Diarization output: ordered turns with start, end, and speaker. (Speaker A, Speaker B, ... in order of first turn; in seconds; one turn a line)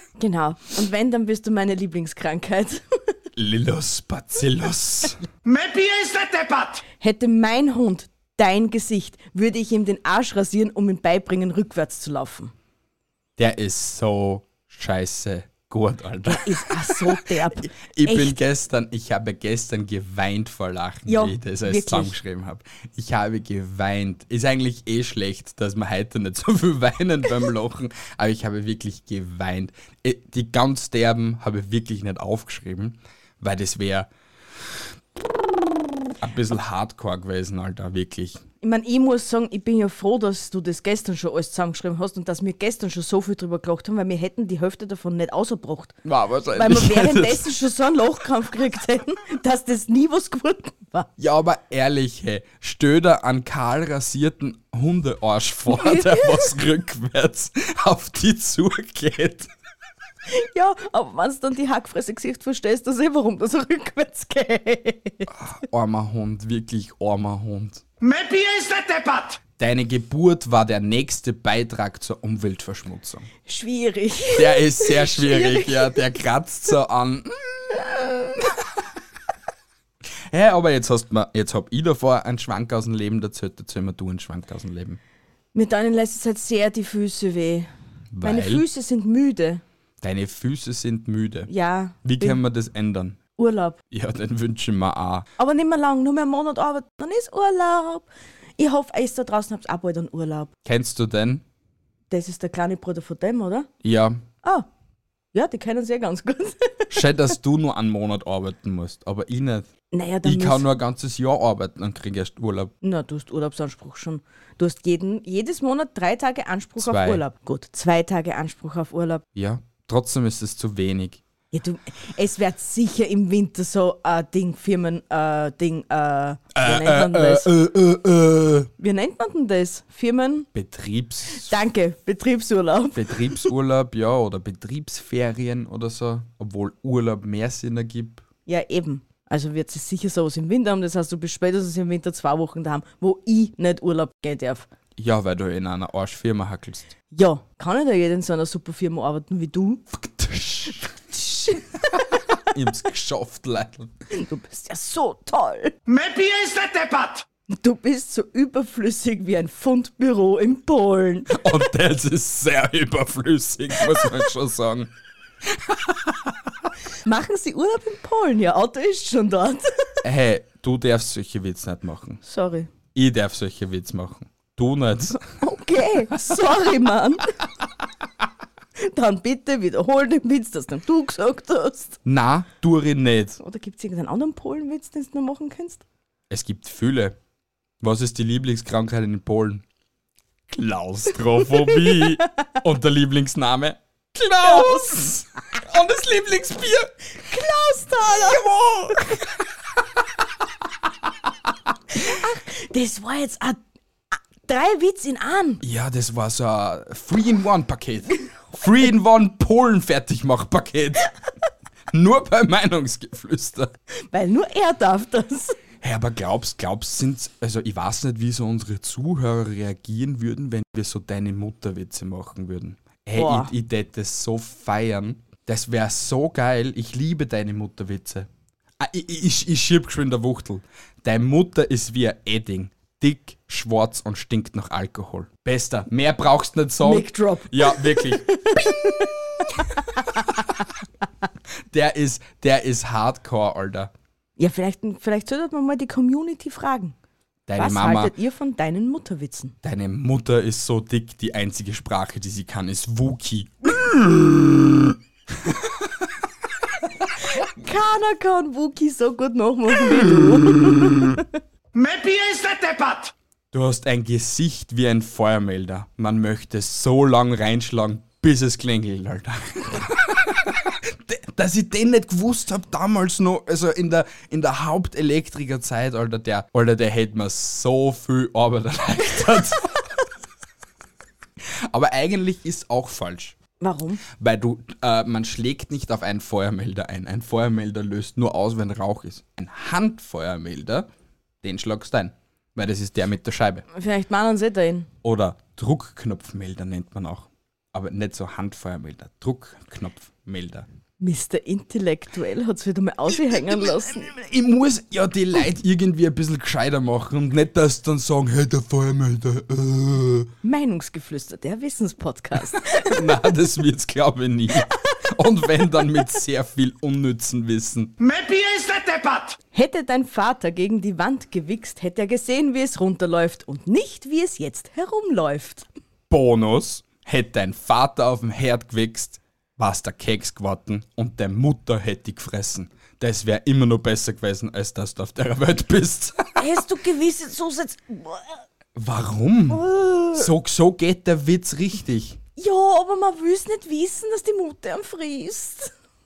Speaker A: 0.2-2.8
Speaker B: 3.4-5.2
Speaker C: 5.4-6.8
Speaker A: 7.0-12.5
Speaker B: 13.4-34.1
Speaker A: 16.3-18.4
Speaker A: 21.1-22.1
Speaker B: 36.2-38.4
Speaker A: 38.6-46.0
Speaker B: 46.0-47.5
Speaker A: 46.5-51.1
Speaker B: 51.2-59.5
Speaker A: 55.7-56.5
Speaker A: 60.3-65.3
Speaker B: 65.3-67.8
Speaker C: 68.0-69.4
Speaker B: 69.6-73.3
Speaker A: 73.5-76.0
Speaker B: 74.3-78.6
Speaker B: 80.3-85.0
Speaker A: 85.5-87.7
Speaker B: 88.1-88.6
Speaker A: 88.2-89.6
Speaker B: 90.0-91.5
Speaker A: 91.5-92.4
Speaker B: 92.0-93.2
Speaker A: 93.4-93.8
Speaker B: 93.9-95.3
Speaker A: 95.4-98.1
Speaker A: 98.6-100.5
Speaker B: 100.6-101.4
Speaker A: 102.1-103.7
Speaker B: 103.8-104.2
Speaker A: 105.3-107.0
Speaker B: 106.9-109.7
Speaker A: 109.9-110.7
Speaker B: 110.2-112.7
Speaker A: 112.8-119.2
Speaker B: 116.8-117.2
Speaker B: 119.3-121.2
Speaker A: 121.5-127.5
Speaker B: 126.5-128.7
Speaker A: 128.8-130.5
Speaker B: 130.5-131.6
Speaker A: 131.3-133.4
Speaker B: 132.9-138.2
Speaker A: 138.5-144.7
Speaker B: 145.0-146.9
Speaker A: 147.1-149.8
Speaker B: 149.9-150.9
Speaker A: 151.1-151.6
Speaker B: 152.3-153.9
Speaker A: 154.1-155.7
Speaker C: 155.8-157.2
Speaker A: 157.5-161.4
Speaker B: 161.3-164.9
Speaker B: 165.5-166.3
Speaker A: 167.0-169.9
Speaker B: 170.0-172.2
Speaker A: 172.2-172.7
Speaker B: 172.9-175.2
Speaker A: 175.4-177.2
Speaker A: 178.8-182.0
Speaker B: 182.0-183.4
Speaker A: 183.4-185.8
Speaker B: 186.3-187.2
Speaker B: 187.8-189.6
Speaker B: 190.5-196.9
Speaker A: 194.4-195.0
Speaker A: 197.2-198.4
Speaker B: 198.1-199.3
Speaker A: 201.9-203.6
Speaker A: 204.1-205.6
Speaker B: 205.6-211.1
Speaker B: 211.9-213.7
Speaker A: 214.1-215.6
Speaker B: 215.8-228.3
Speaker A: 223.1-223.5
Speaker B: 228.8-239.6
Speaker A: 236.8-240.2
Speaker B: 241.7-243.9
Speaker A: 244.4-246.9
Speaker B: 247.5-248.1
Speaker A: 247.6-249.5
Speaker B: 249.6-256.0
Speaker A: 257.3-261.3
Speaker B: 259.9-261.0
Speaker C: 261.7-263.1
Speaker B: 263.5-279.9
Speaker B: 281.7-283.4
Speaker A: 283.6-284.0
Speaker B: 284.1-290.9
Speaker B: 291.4-293.6
Speaker A: 293.7-294.9
Speaker B: 295.0-300.7
Speaker A: 301.0-304.1
Speaker B: 303.3-310.3
Speaker A: 310.4-313.2
Speaker B: 312.6-317.9
Speaker A: 314.7-315.0
Speaker C: 318.0-319.4
Speaker A: 319.5-325.7
Speaker B: 326.1-336.6
Speaker A: 336.4-338.4
Speaker B: 338.7-342.2
Speaker A: 339.5-340.3
Speaker A: 342.4-345.7